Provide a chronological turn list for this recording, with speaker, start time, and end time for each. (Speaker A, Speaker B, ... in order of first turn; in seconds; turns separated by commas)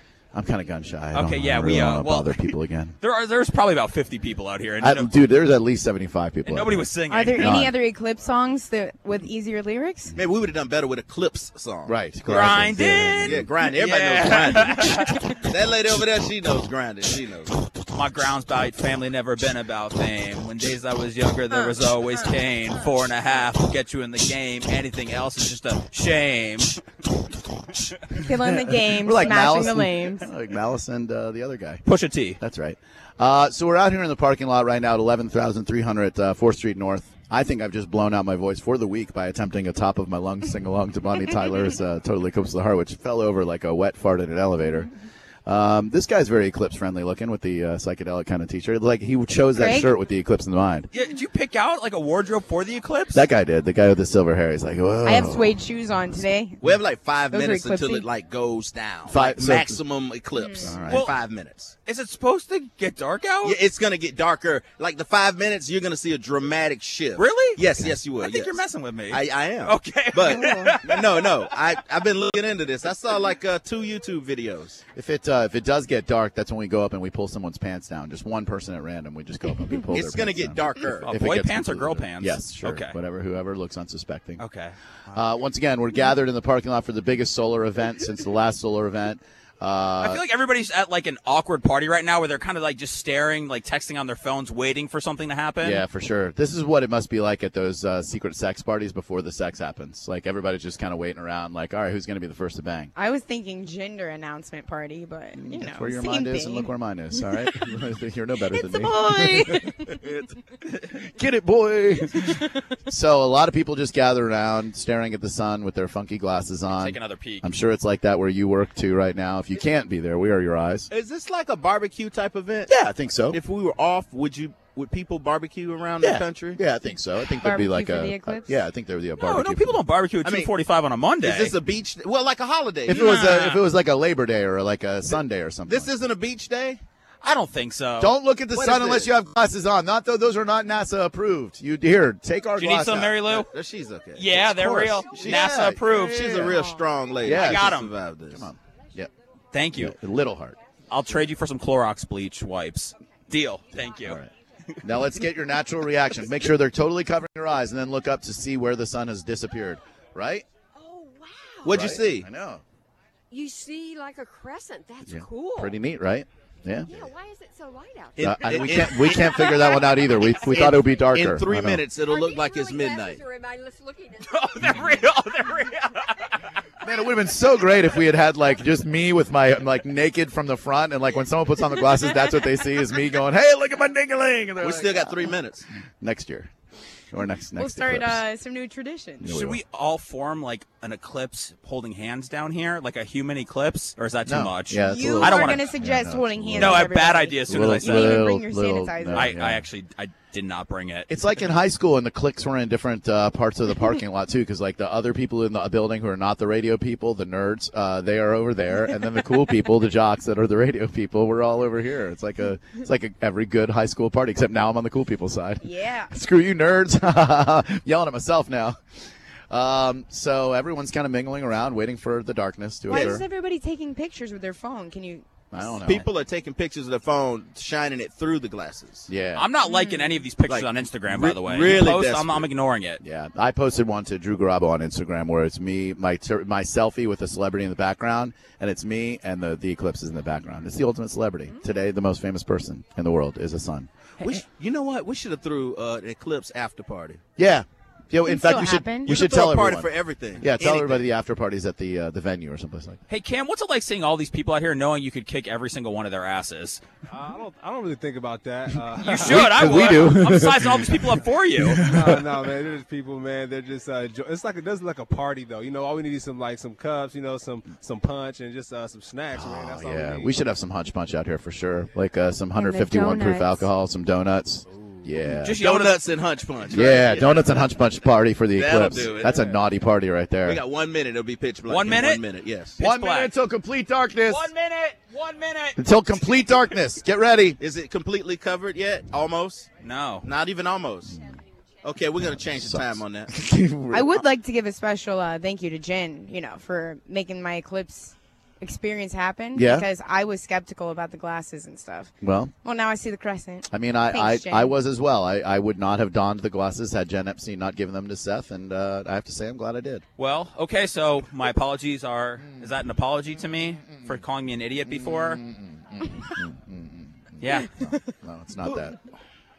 Speaker A: 0.3-3.0, Speaker B: 1.1-5.1, Speaker A: 4.8-7.7, Speaker B: 6.5-7.5, Speaker C: 7.1-10.1, Speaker D: 10.2-11.9, Speaker A: 11.8-13.5, Speaker B: 12.3-15.4, Speaker D: 13.2-17.5, Speaker B: 17.8-26.8, Speaker C: 21.5-22.3, Speaker C: 28.1-30.2, Speaker A: 28.3-31.8, Speaker B: 31.9-32.4, Speaker A: 32.4-44.9, Speaker A: 45.5-50.9, Speaker C: 49.5-49.9, Speaker B: 50.9-53.2, Speaker A: 53.1-55.6, Speaker C: 55.0-56.6, Speaker D: 56.6-61.7, Speaker C: 57.3-58.0, Speaker A: 59.1-59.8, Speaker C: 60.4-60.7, Speaker A: 60.6-61.0, Speaker B: 60.9-61.1, Speaker B: 61.9-63.6, Speaker D: 63.4-68.6, Speaker B: 67.2-71.5, Speaker D: 69.1-74.8, Speaker C: 70.4-70.7, Speaker A: 74.9-84.4, Speaker D: 79.9-81.1, Speaker B: 81.0-83.0, Speaker B: 84.4-84.8, Speaker A: 85.1-90.2, Speaker B: 90.0-95.8, Speaker A: 95.6-102.9, Speaker C: 103.0-107.6, Speaker A: 105.3-120.9, Speaker C: 108.5-110.0, Speaker B: 116.7-117.5, Speaker D: 120.9-122.7, Speaker A: 122.7-123.4, Speaker D: 123.3-126.6, Speaker A: 126.0-129.8, Speaker C: 127.4-128.6, Speaker B: 129.2-131.6, Speaker D: 130.2-130.5, Speaker D: 131.2-133.5, Speaker A: 132.8-135.9, Speaker B: 132.9-133.6, Speaker D: 135.7-136.8, Speaker B: 137.2-138.1, Speaker A: 138.0-143.3, Speaker D: 138.5-139.1, Speaker B: 142.6-143.5, Speaker D: 143.3-144.4, Speaker B: 144.1-146.2, Speaker A: 144.3-146.6, Speaker D: 145.1-148.5, Speaker E: 146.5-146.8, Speaker A: 147.2-147.8, Speaker B: 147.2-147.9, Speaker A: 148.3-149.1, Speaker B: 149.5-149.9, Speaker A: 149.8-150.6, Speaker B: 150.9-154.2, Speaker A: 154.0-154.3, Speaker A: 154.8-160.4, Speaker E: 160.7-161.9, Speaker D: 161.6-162.3, Speaker A: 161.7-162.6, Speaker E: 163.3-165.8, Speaker A: 165.0-167.1, Speaker E: 166.9-170.4, Speaker D: 168.2-169.7, Speaker A: 168.2-171.8, Speaker D: 170.4-173.2, Speaker E: 171.9-176.2, Speaker B: 174.2-176.4, Speaker A: 176.8-185.3, Speaker D: 184.6-185.6, Speaker A: 186.0-186.5, Speaker A: 187.1-188.2, Speaker C: 187.5-189.3, Speaker A: 189.2-189.6, Speaker B: 189.2-195.6, Speaker A: 194.2-196.9, Speaker C: 194.8-199.3, Speaker B: 196.5-198.3, Speaker A: 197.5-199.7, Speaker B: 199.1-201.1, Speaker A: 201.1-218.8, Speaker C: 215.6-216.1, Speaker A: 219.5-223.2, Speaker C: 222.9-225.2, Speaker A: 225.5-226.1, Speaker D: 225.8-229.1, Speaker A: 229.1-229.5, Speaker B: 229.3-233.0, Speaker C: 229.6-230.1, Speaker D: 230.5-232.5, Speaker A: 233.0-243.9, Speaker D: 244.2-247.2, Speaker A: 247.4-253.0, Speaker C: 248.2-249.1, Speaker D: 249.0-251.1, Speaker B: 253.1-256.8, Speaker F: 257.1-259.8, Speaker B: 259.0-261.8, Speaker A: 259.1-262.3, Speaker F: 261.8-270.3, Speaker A: 269.3-275.6, Speaker C: 272.5-273.7, Speaker F: 274.7-275.1, Speaker B: 275.4-276.0, Speaker D: 275.5-277.5, Speaker A: 276.7-280.6, Speaker D: 278.5-279.4, Speaker F: 279.3-279.6, Speaker D: 280.4-282.8, Speaker B: 281.7-282.2, Speaker B: 282.8-283.3, Speaker A: 282.8-284.5, Speaker B: 284.2-285.8, Speaker A: 285.8-287.6, Speaker D: 287.6-289.7, Speaker B: 289.8-290.3, Speaker D: 290.2-291.2, Speaker A: 291.1-291.4, Speaker D: 291.8-293.3, Speaker A: 292.1-294.2, Speaker C: 293.9-304.8, Speaker A: 299.5-299.9, Speaker A: 302.2-302.5, Speaker A: 303.7-310.0, Speaker B: 310.2-315.4, Speaker A: 313.8-314.2, Speaker A: 314.8-319.0, Speaker B: 317.4-317.9